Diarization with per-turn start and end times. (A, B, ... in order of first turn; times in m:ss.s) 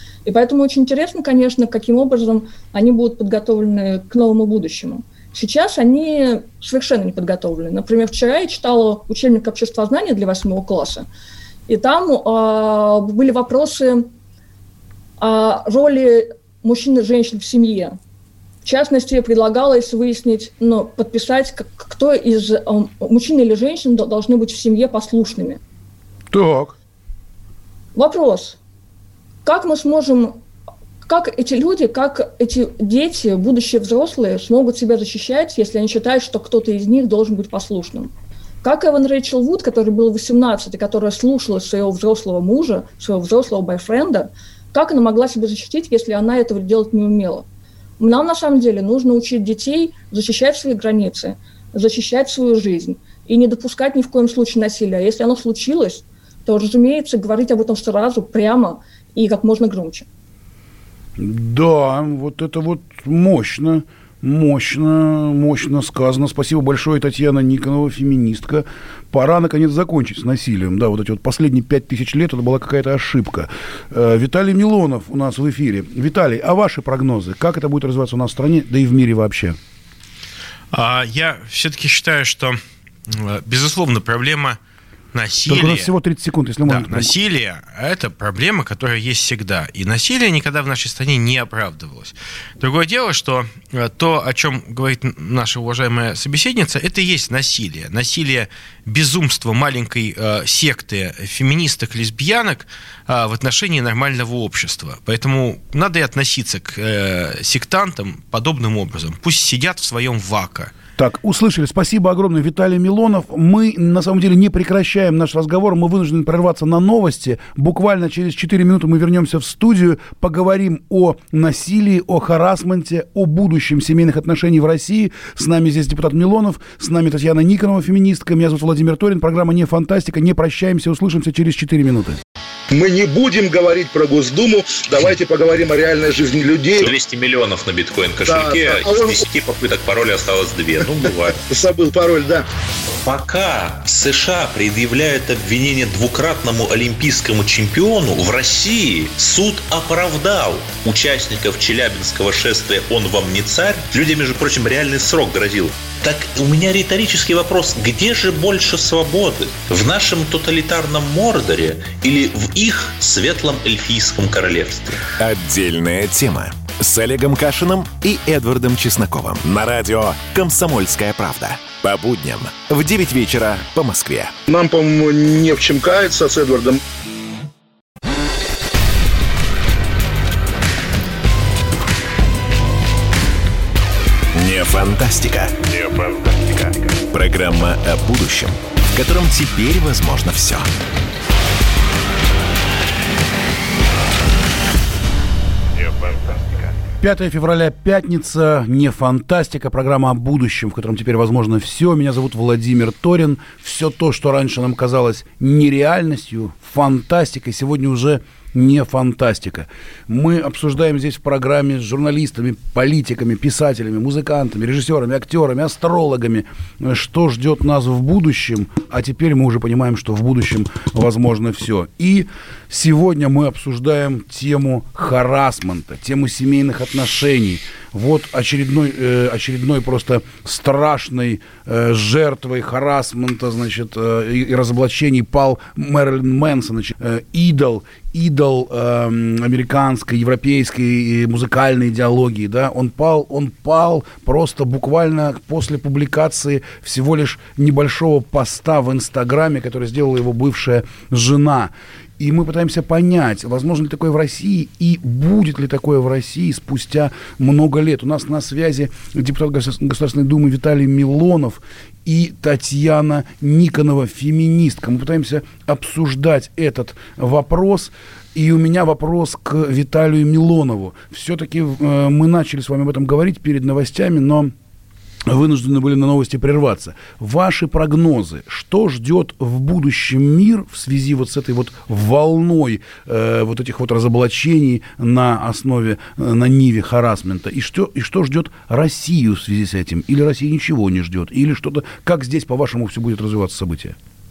0:00.2-0:11.1 A
0:11.7-0:14.1 A
0:15.2-0:18.0 A
0:18.6-0:25.6 A
0:26.3-0:26.8 B
0:28.0-0:28.6 A
0:29.4-0:30.4 A
0:31.0-0:38.1 A
0:38.6-0:47.4 A
0:48.0-1:00.0 A
1:01.2-1:19.6 B
1:20.7-1:24.6 C
1:25.1-1:25.9 C
1:25.5-1:27.1 B
1:26.6-1:50.7 C
1:51.0-2:12.2 B
2:12.7-2:16.9 D
2:16.8-2:21.4 E
2:18.3-2:19.2 D
2:21.5-2:22.5 D
2:23.0-2:45.0 E
2:45.2-2:54.3 F
2:54.5-2:56.8 D
3:04.3-3:05.5 F
3:07.1-3:10.7 F
3:17.0-4:34.5 B
4:35.2-4:54.0 B